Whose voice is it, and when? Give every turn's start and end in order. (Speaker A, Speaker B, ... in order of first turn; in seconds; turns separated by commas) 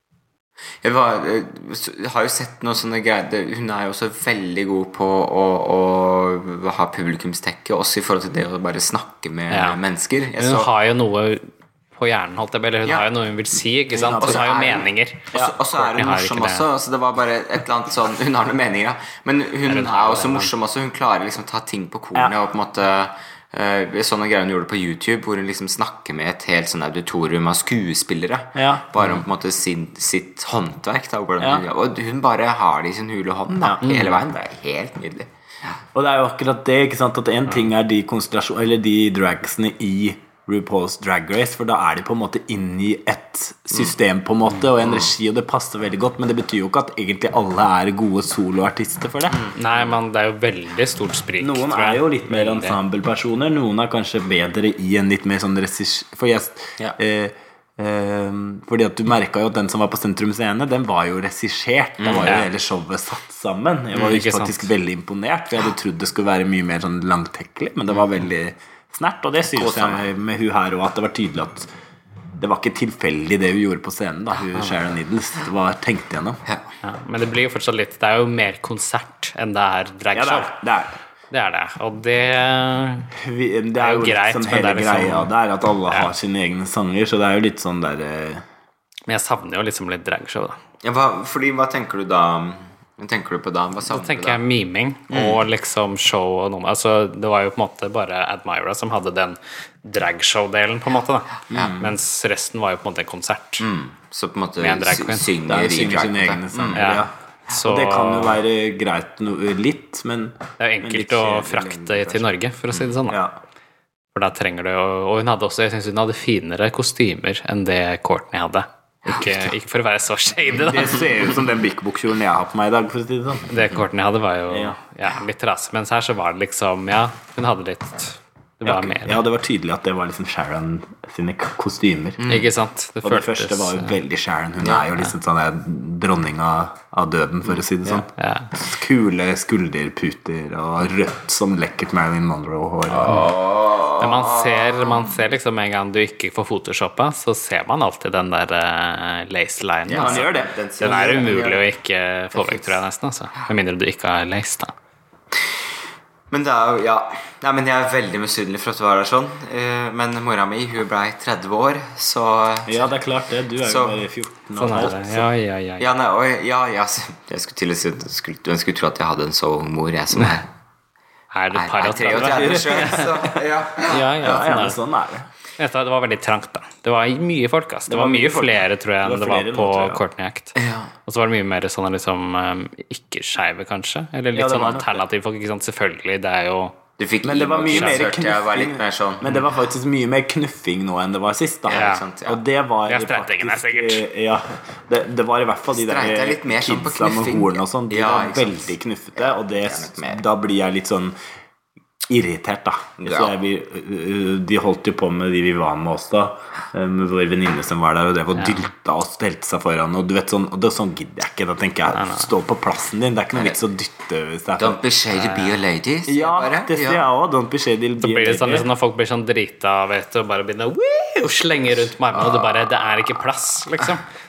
Speaker A: 0.8-10.7, Speaker B: 9.5-9.8, Speaker B: 10.4-16.6, Speaker C: 13.9-14.6, Speaker A: 14.2-35.3, Speaker B: 19.6-20.5, Speaker C: 28.5-29.1, Speaker C: 31.4-31.6, Speaker B: 33.8-34.2, Speaker C: 35.9-49.5, Speaker A: 44.8-45.1, Speaker B: 49.5-52.8, Speaker C: 51.4-71.7, Speaker A: 62.0-62.4, Speaker B: 64.0-64.7, Speaker A: 69.5-70.0, Speaker C: 72.4-76.4, Speaker B: 76.8-80.5, Speaker C: 80.1-81.0, Speaker B: 81.3-83.1, Speaker C: 83.1-88.4, Speaker B: 83.8-85.3, Speaker B: 89.1-90.6, Speaker A: 90.8-94.4, Speaker B: 93.9-103.6, Speaker A: 95.1-95.4, Speaker A: 101.5-101.8, Speaker C: 101.5-101.9, Speaker A: 103.6-106.9, Speaker B: 104.6-105.3, Speaker C: 105.5-112.2, Speaker B: 106.7-108.4, Speaker B: 110.6-113.2, Speaker C: 113.1-113.3, Speaker B: 114.1-121.0, Speaker C: 120.5-123.5, Speaker B: 123.5-129.2, Speaker C: 124.5-124.8, Speaker C: 128.6-132.2, Speaker A: 132.2-132.5, Speaker B: 132.3-134.0, Speaker C: 133.0-143.3, Speaker A: 134.6-134.9, Speaker B: 138.1-138.5, Speaker A: 142.9-145.1, Speaker B: 144.0-150.3, Speaker A: 149.9-151.6, Speaker C: 150.0-150.6, Speaker B: 150.8-154.7, Speaker A: 152.3-152.8, Speaker A: 156.3-162.9, Speaker C: 162.7-165.3, Speaker A: 163.6-164.0, Speaker B: 164.5-165.9, Speaker A: 165.8-170.5, Speaker B: 171.3-173.1, Speaker A: 171.5-174.5, Speaker C: 172.1-173.4, Speaker B: 173.9-174.8, Speaker C: 174.2-175.3, Speaker B: 175.6-186.8, Speaker C: 177.9-180.0, Speaker A: 180.6-180.9, Speaker C: 184.3-185.0, Speaker A: 187.0-189.4, Speaker C: 187.2-201.1, Speaker B: 187.7-188.0, Speaker A: 191.7-192.4, Speaker B: 191.7-192.0, Speaker B: 192.9-194.0, Speaker A: 195.7-200.2, Speaker C: 202.1-214.8, Speaker A: 203.0-203.3, Speaker B: 211.9-212.3, Speaker A: 214.6-217.1, Speaker B: 215.2-215.5, Speaker C: 216.1-218.7, Speaker B: 218.0-224.0, Speaker A: 222.2-222.5